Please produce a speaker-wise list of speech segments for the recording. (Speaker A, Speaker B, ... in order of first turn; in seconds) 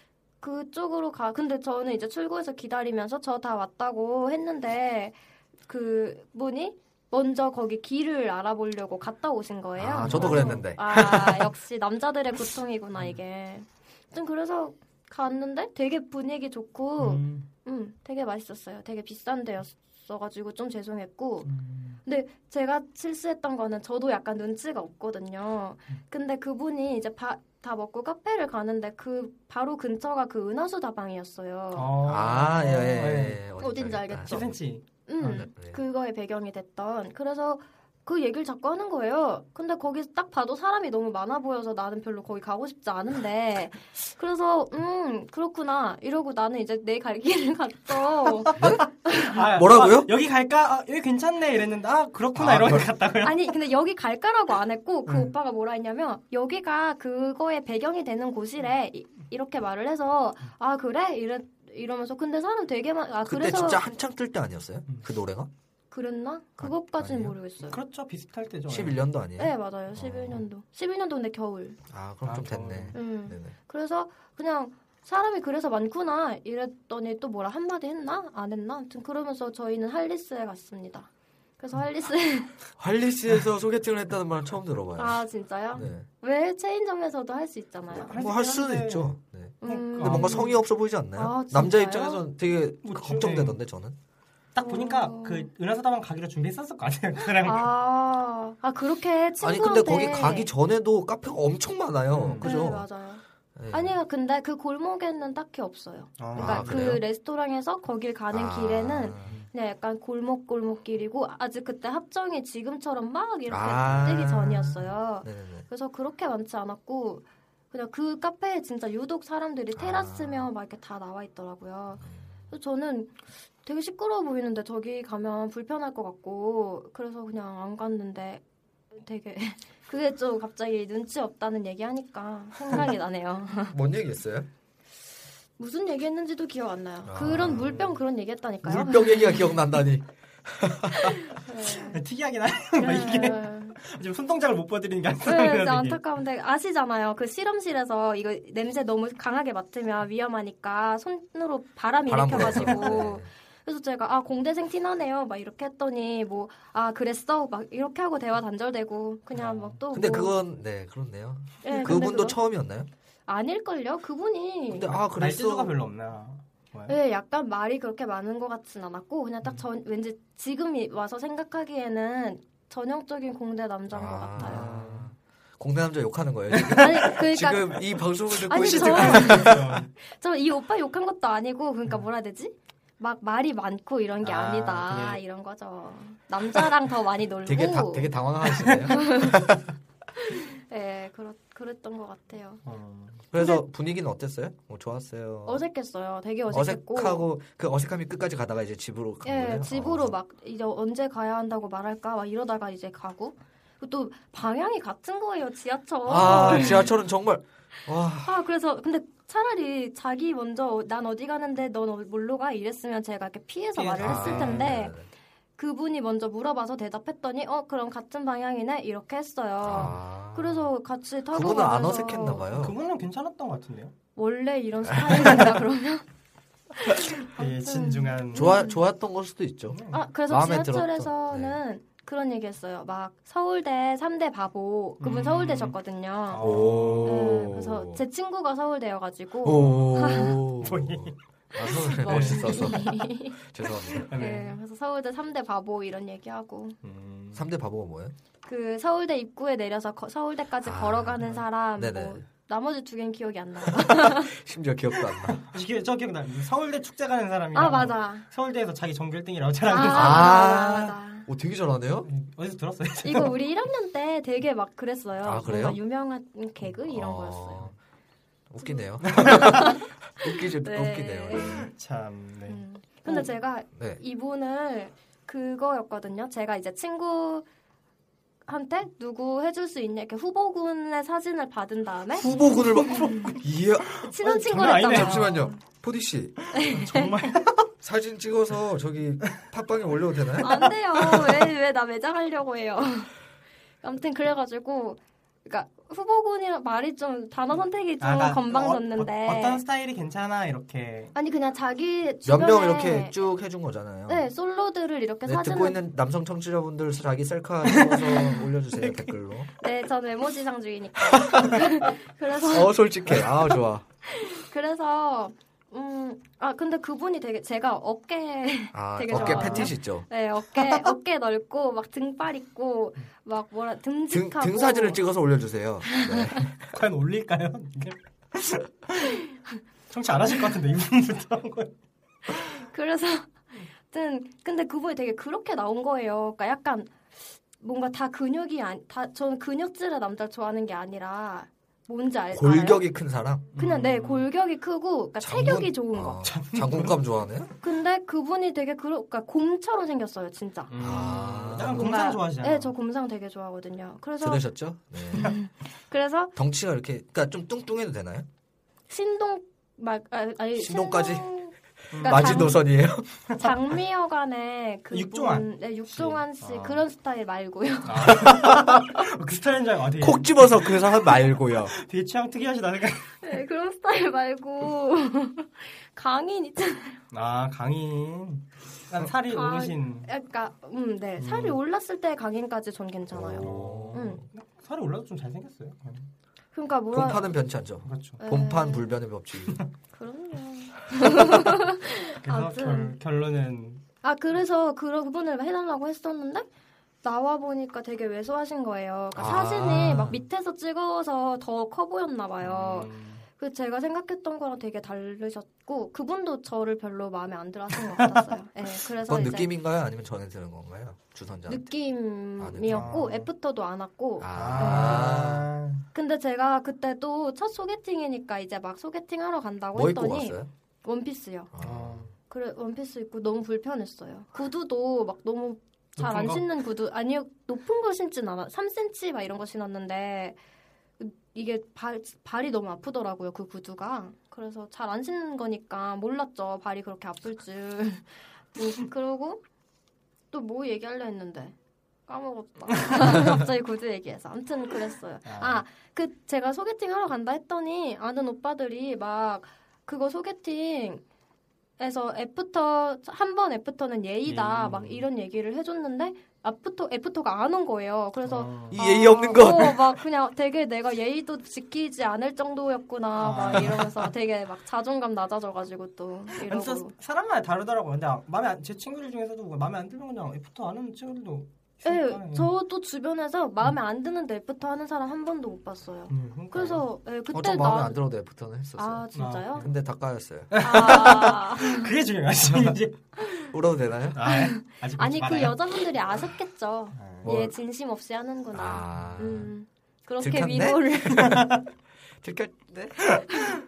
Speaker A: 0.4-5.2, 5.7-21.5, 22.1-31.9, 33.6-49.4, 53.2-63.8, 65.9-67.8, 69.4-71.8, 72.9-82.5, 85.0-88.2, 89.6-90.6, 91.2-92.2, 94.6-95.5, 97.4-100.5, 102.4-128.4, 128.9-133.8, 135.6-139.6, 141.2-142.0, 142.8-143.8, 145.2-160.4, 161.6-162.4, 163.3-165.0, 166.9-174.7, 176.7-177.8, 178.4-188.2, 188.9-189.4, 190.2-192.6, 193.4-193.6, 195.5-197.3, 199.2-206.9, 208.2-215.0, 215.6-222.4, 224.2-226.1, 226.8-228.8, 229.9-240.4, 241.7-243.4, 244.0-246.8, 248.5-254.3, 257.5-258.3, 259.7-261.3, 263.0-267.7, 268.6-271.7, 272.5-277.5, 278.5-282.3, 282.8-283.3, 284.0-285.6, 286.5-287.1, 290.4-293.1, 293.8-299.6, 301.1-303.2, 304.1-305.8, 309.6-312.8, 314.1-325.0, 325.9-326.4, 332.3-337.1, 337.6-342.9, 343.6-346.3, 347.6-350.7, 351.6-354.4, 355.1-356.3, 358.9-362.6, 363.4-368.2, 373.2-377.0, 379.3-384.2, 386.5-387.4, 388.2-388.9, 389.9-393.0, 394.0-396.5, 397.0-409.5, 411.5-415.1, 415.9-421.5, 422.3-430.4, 431.0-439.4, 440.3-441.6, 442.1-451.0, 451.8-466.9, 471.9-478.0, 478.8-479.7, 480.6-481.9, 483.2-483.5, 484.2-491.4
Speaker B: 9.8-11.5, 32.1-34.6, 35.2-35.8, 48.6-48.9, 49.4-50.1, 52.4-52.9, 63.2-65.5, 66.6-67.4, 68.7-70.5, 71.9-73.5, 82.8-85.2, 85.7-86.1, 88.1-94.0, 99.4-102.9, 103.6-104.0, 106.3-107.0, 108.3-109.4, 113.5-115.7, 119.8-120.5, 122.0-122.4, 133.7-134.5, 137.1-137.9, 138.6-141.2, 152.1-153.3, 159.9-162.9, 164.7-165.8, 173.9-179.8, 187.4-189.6, 193.3-195.6, 196.5-200.1, 206.1-208.4, 214.0-215.1, 219.6-220.7, 221.3-222.8, 224.9-225.3, 228.3-231.6, 236.4-238.0, 239.4-244.1, 247.3-248.2, 250.6-252.2, 253.7-255.4, 259.9-262.1, 265.2-265.8, 266.9-267.7, 268.5-271.7, 273.8-274.0, 282.1-286.6, 287.8-290.7, 302.2-304.3, 305.2-309.5, 311.0-313.9, 318.7-320.1, 324.1-326.6, 342.3-343.5, 345.2-347.5, 350.8-352.0, 354.2-355.4, 356.4-358.3, 360.6-361.3, 361.9-363.3, 368.2-368.9, 370.0-371.8, 383.1-384.3, 386.9-389.6, 399.1-400.2, 409.0-411.7, 412.4-413.0, 414.2-415.5, 419.7-420.5, 421.5-422.1, 458.7-460.0, 477.3-480.9, 482.5-482.8, 483.5-484.2, 487.2-487.5, 488.5-489.5, 490.2-491.6, 492.2-493.4
Speaker C: 10.0-10.7, 17.0-17.5, 21.4-22.0, 31.8-33.4, 34.3-35.4, 48.5-53.5, 55.1-55.3, 67.6-69.0, 72.2-73.0, 87.9-90.5, 92.8-93.6, 94.5-97.7, 102.1-102.6, 106.2-106.8, 132.6-132.9, 141.8-146.0, 152.3-153.1, 159.3-159.8, 165.2-167.0, 174.4-175.1, 176.6-176.8, 178.4-179.9, 184.2-185.2, 188.5-188.9, 192.7-193.3, 206.3-206.8, 213.8-214.7, 222.5-223.9, 227.3-228.5, 229.7-230.0, 235.0-235.8, 236.3-237.5, 240.6-242.8, 244.0-244.6, 246.8-247.5, 255.4-260.7, 262.0-263.4, 269.1-269.6, 271.6-273.2, 282.3-283.4, 284.1-285.4, 286.6-287.7, 291.2-291.4, 298.0-301.1, 307.7-309.1, 319.1-319.7, 326.7-329.2, 329.9-331.8, 343.5-344.3, 346.2-347.0, 350.7-352.7, 361.9-362.6, 364.9-366.8, 367.9-373.2, 377.1-380.1, 381.2-381.6, 383.4-386.1, 387.9-388.2, 392.2-393.8, 402.4-403.2, 412.7-413.3, 414.3-415.9, 421.6-422.1, 426.0-426.5, 442.9-443.4, 445.2-445.6, 454.3-455.1, 458.2-458.8, 463.2-464.1, 466.4-472.5, 476.1-476.8, 479.1-479.7, 480.5-483.1, 484.1-485.8, 486.9-487.3, 488.9-489.2, 491.1-491.6